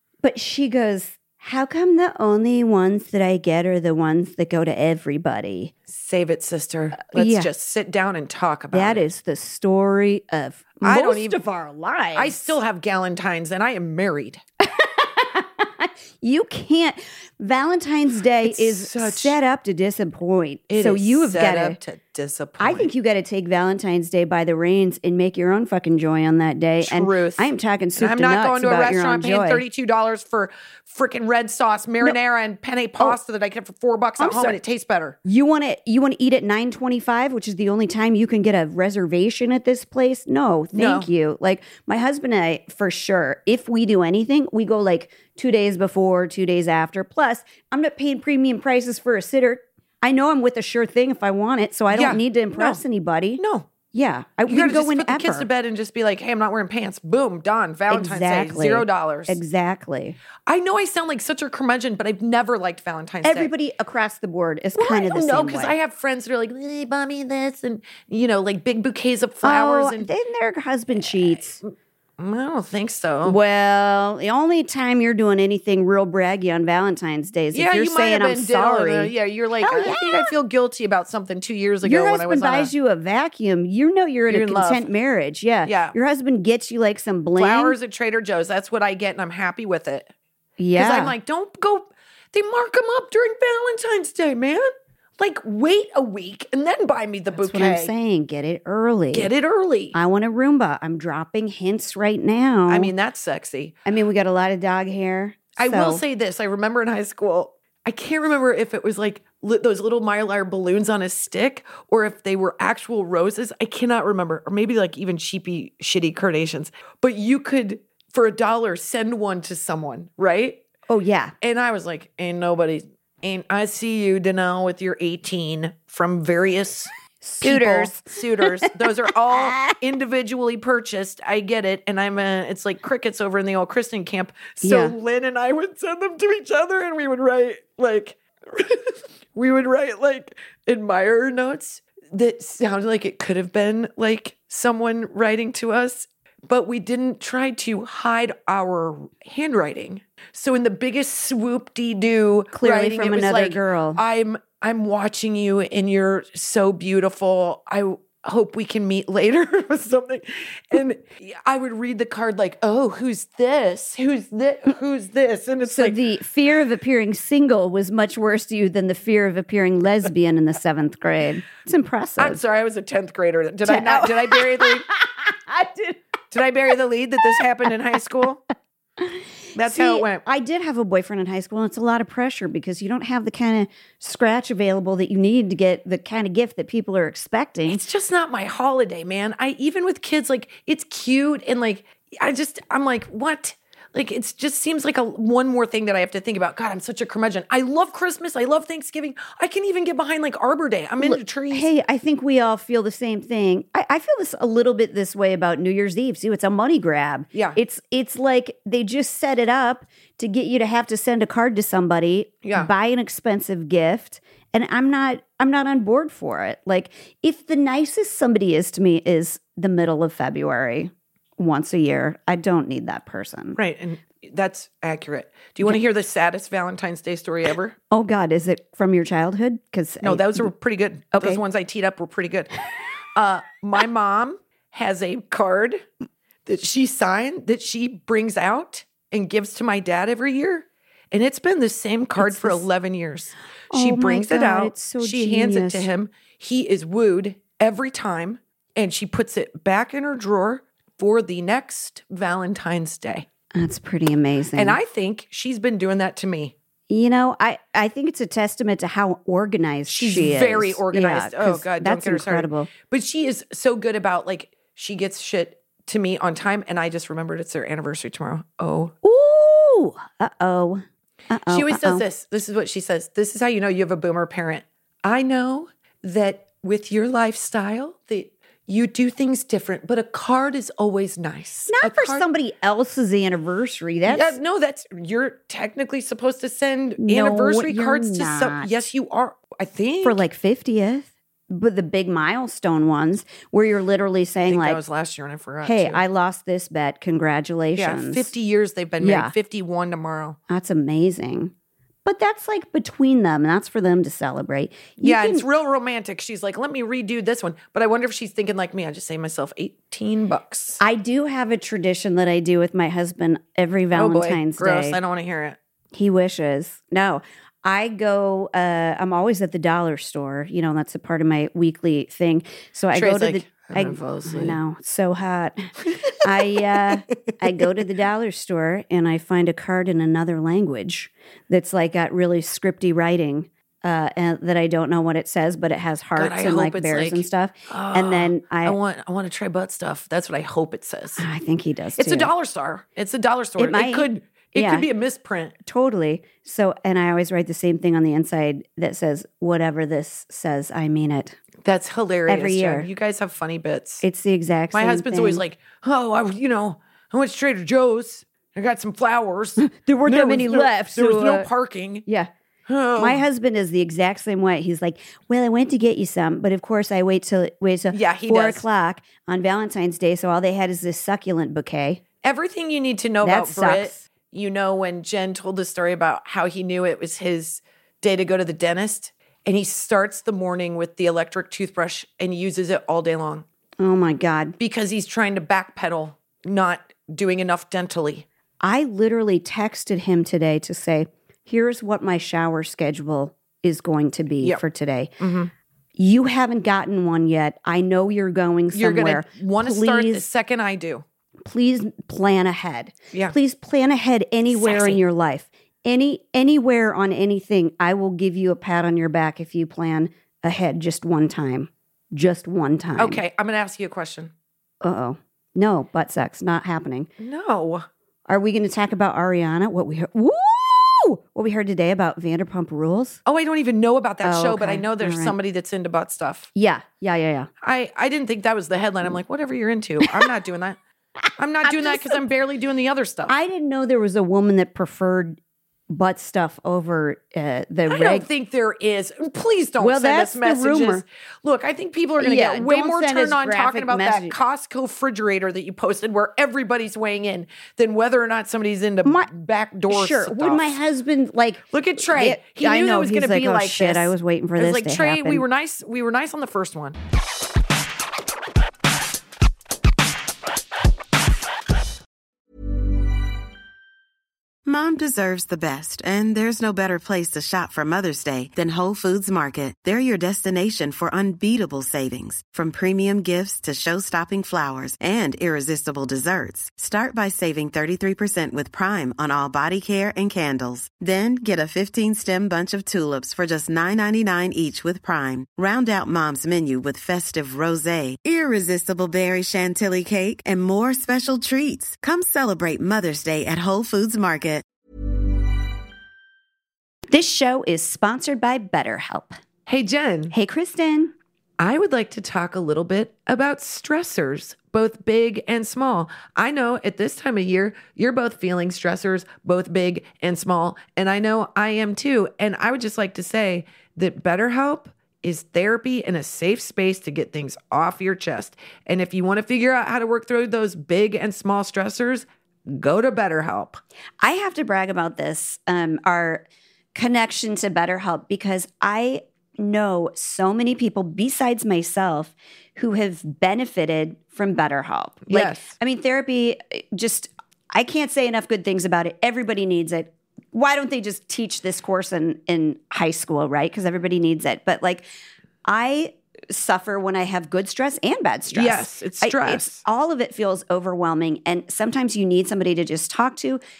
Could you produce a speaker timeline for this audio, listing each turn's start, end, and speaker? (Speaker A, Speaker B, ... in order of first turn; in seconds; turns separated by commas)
Speaker A: 0.2-5.7, Speaker B: 5.9-9.1, Speaker A: 7.0-7.5, Speaker A: 8.7-12.6, Speaker B: 10.8-11.4, Speaker B: 12.1-14.4, Speaker A: 14.6-21.8, Speaker B: 18.4-19.4, Speaker B: 20.7-22.9, Speaker A: 22.6-29.6, Speaker B: 26.8-35.2, Speaker A: 34.2-34.6, Speaker A: 35.2-55.5, Speaker B: 40.7-41.1, Speaker B: 51.9-52.8, Speaker B: 53.4-53.7, Speaker B: 54.5-59.4, Speaker A: 57.9-60.2, Speaker B: 60.5-63.5, Speaker A: 63.2-65.7, Speaker B: 64.7-70.1, Speaker A: 69.4-71.6, Speaker B: 71.6-73.4, Speaker A: 73.2-80.3, Speaker B: 77.5-82.7, Speaker A: 81.8-87.8, Speaker B: 84.3-84.9, Speaker B: 85.6-85.9, Speaker B: 87.3-90.1, Speaker A: 90.6-91.1, Speaker B: 90.8-97.9, Speaker A: 97.3-99.3, Speaker B: 99.1-99.9, Speaker A: 99.9-102.9, Speaker B: 102.7-103.8, Speaker A: 103.8-106.0, Speaker B: 105.6-120.6, Speaker A: 120.9-121.3, Speaker B: 121.4-126.9, Speaker A: 127.2-129.8, Speaker B: 127.4-166.0, Speaker A: 134.6-134.9, Speaker A: 152.5-154.0, Speaker A: 165.7-172.4, Speaker B: 172.2-174.9, Speaker A: 173.6-176.0, Speaker B: 176.3-178.4, Speaker A: 179.0-187.8, Speaker B: 179.5-180.2, Speaker B: 187.7-201.7, Speaker A: 201.0-223.6, Speaker B: 212.4-212.7, Speaker B: 223.6-227.8, Speaker A: 227.9-230.5, Speaker B: 230.0-232.5, Speaker A: 231.1-231.4, Speaker B: 233.1-235.8, Speaker B: 236.4-253.3, Speaker A: 242.2-242.6, Speaker A: 243.7-245.9, Speaker A: 253.5-254.8, Speaker B: 254.5-256.5, Speaker A: 256.9-262.7, Speaker B: 259.9-268.9, Speaker A: 269.0-272.0, Speaker B: 271.5-282.2, Speaker A: 281.7-284.4, Speaker B: 284.1-290.2, Speaker A: 287.0-288.8, Speaker A: 290.0-294.8, Speaker B: 294.5-296.0, Speaker A: 295.6-298.3, Speaker B: 297.8-300.4, Speaker A: 299.0-299.3, Speaker A: 300.5-301.5, Speaker A: 302.0-305.4, Speaker B: 305.0-310.8, Speaker A: 310.8-315.0, Speaker B: 313.9-315.6, Speaker A: 315.9-338.8, Speaker B: 322.9-324.6, Speaker B: 336.1-341.2, Speaker A: 341.2-342.3, Speaker B: 342.0-345.5, Speaker A: 343.6-344.9, Speaker A: 345.6-351.4, Speaker B: 351.6-354.0, Speaker A: 352.3-352.9, Speaker A: 354.0-355.4, Speaker B: 354.7-362.0, Speaker A: 359.6-361.5, Speaker B: 362.7-363.2, Speaker A: 363.0-372.0, Speaker B: 367.9-368.6, Speaker B: 372.2-383.4, Speaker A: 373.2-374.0, Speaker A: 383.8-384.6, Speaker B: 384.6-388.2, Speaker A: 388.6-395.1, Speaker B: 395.2-395.5, Speaker A: 395.9-400.2, Speaker B: 398.7-401.0, Speaker A: 401.4-413.2, Speaker B: 404.5-405.0, Speaker B: 413.0-414.3, Speaker A: 414.8-417.1, Speaker B: 417.2-417.9, Speaker A: 418.3-423.2, Speaker B: 423.2-426.5, Speaker A: 424.2-425.4, Speaker A: 426.5-427.5, Speaker B: 427.6-430.8, Speaker B: 431.4-433.3, Speaker A: 431.6-432.2, Speaker A: 433.3-435.4, Speaker A: 435.9-438.2, Speaker B: 437.9-450.8, Speaker A: 439.8-441.0, Speaker A: 442.2-444.3, Speaker A: 449.9-455.4, Speaker B: 451.7-457.0, Speaker C: 464.6-494.6, Speaker A: 497.1-499.3, Speaker B: 499.7-500.3, Speaker A: 500.3-501.1, Speaker B: 501.6-523.8, Speaker A: 524.2-545.0, Speaker B: 535.3-535.7, Speaker A: 545.6-553.6, Speaker B: 548.5-549.8